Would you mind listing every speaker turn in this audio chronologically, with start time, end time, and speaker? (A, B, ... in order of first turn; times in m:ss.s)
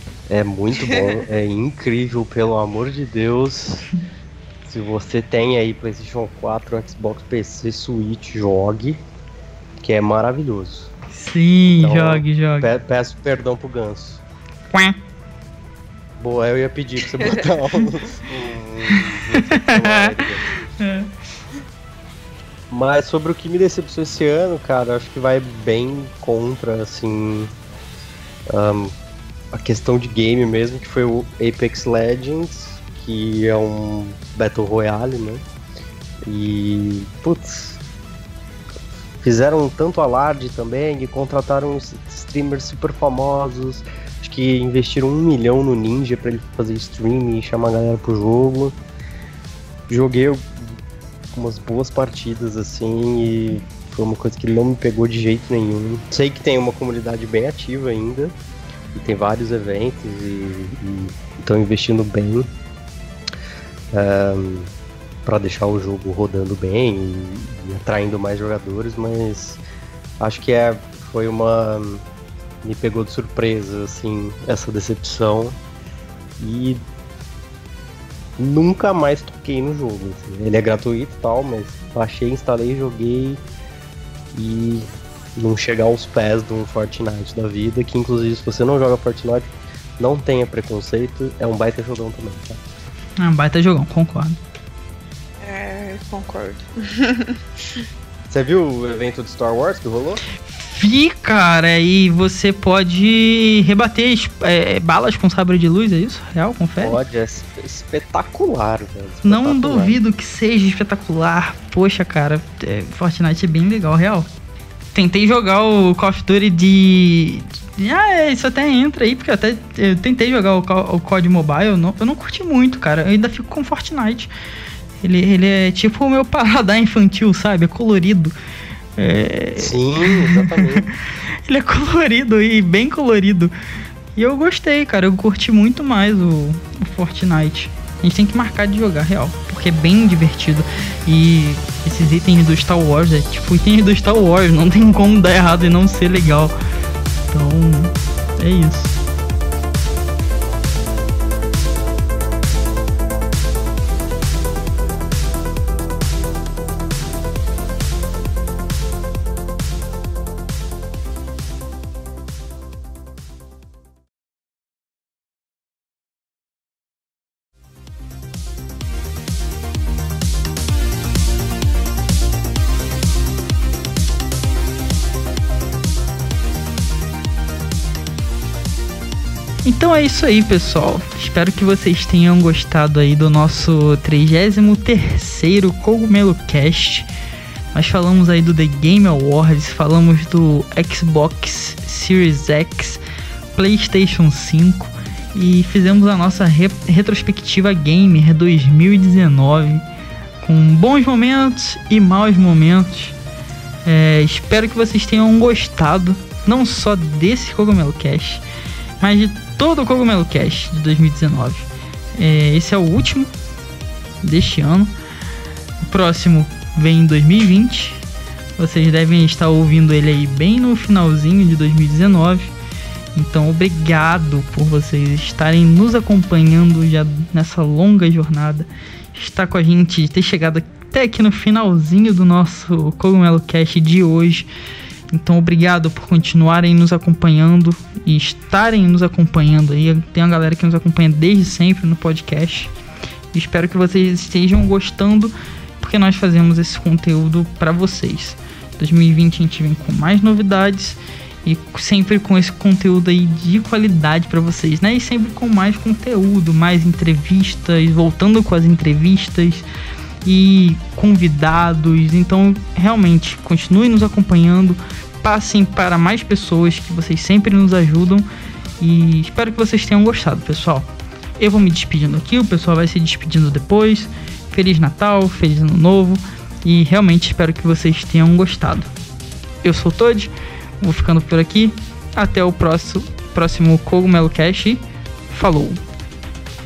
0:00.3-0:03.9 A
0:04.6-0:09.0 A
0:09.8-0:10.9 A
0:11.1-0:12.7 B
0:11.8-0:14.2 A
0:14.7-0:15.0 B
0:16.2-0:20.5 A
0:18.9-0:21.1 B
0:22.7-0:27.5 A
0:28.5-0:28.9 A
0:29.5-0:35.4 A
0:36.2-0:37.8 A
0:39.2-0:48.8 A
0:49.9-0:50.8 A
0:51.3-0:58.4 A
0:58.9-1:02.5 A
1:03.9-1:04.7 A
1:05.2-1:09.6 A
1:10.2-1:12.0 A
1:12.6-1:15.6 A
1:16.4-1:16.8 A
1:18.4-1:23.4 A
1:24.3-1:32.6 A
1:33.2-1:34.4 B
1:35.4-1:37.8 C
1:38.3-1:40.2 A
1:40.6-1:47.0 B
1:46.8-1:50.0 A
1:49.2-1:54.3 B
1:54.9-2:04.3 B
2:05.0-2:08.3 B
2:09.0-2:10.9 B
2:09.6-2:10.8 A
2:11.4-2:13.5 B
2:14.2-2:26.5 B
2:27.3-2:29.0 B
2:59.6-3:07.1 B
3:07.7-3:13.0 B
3:13.5-3:19.8 B
3:20.4-3:23.2 B
3:23.9-3:28.4 B
3:29.0-3:33.3 B
3:34.2-3:34.9 B
3:35.8-3:38.0 B
3:38.6-3:42.5 B
3:43.1-3:54.5 B
3:55.1-4:02.7 B
4:03.3-4:19.6 B
4:20.2-4:28.3 B
4:28.8-4:30.9 B
4:31.4-4:38.9 B
4:39.6-4:45.8 B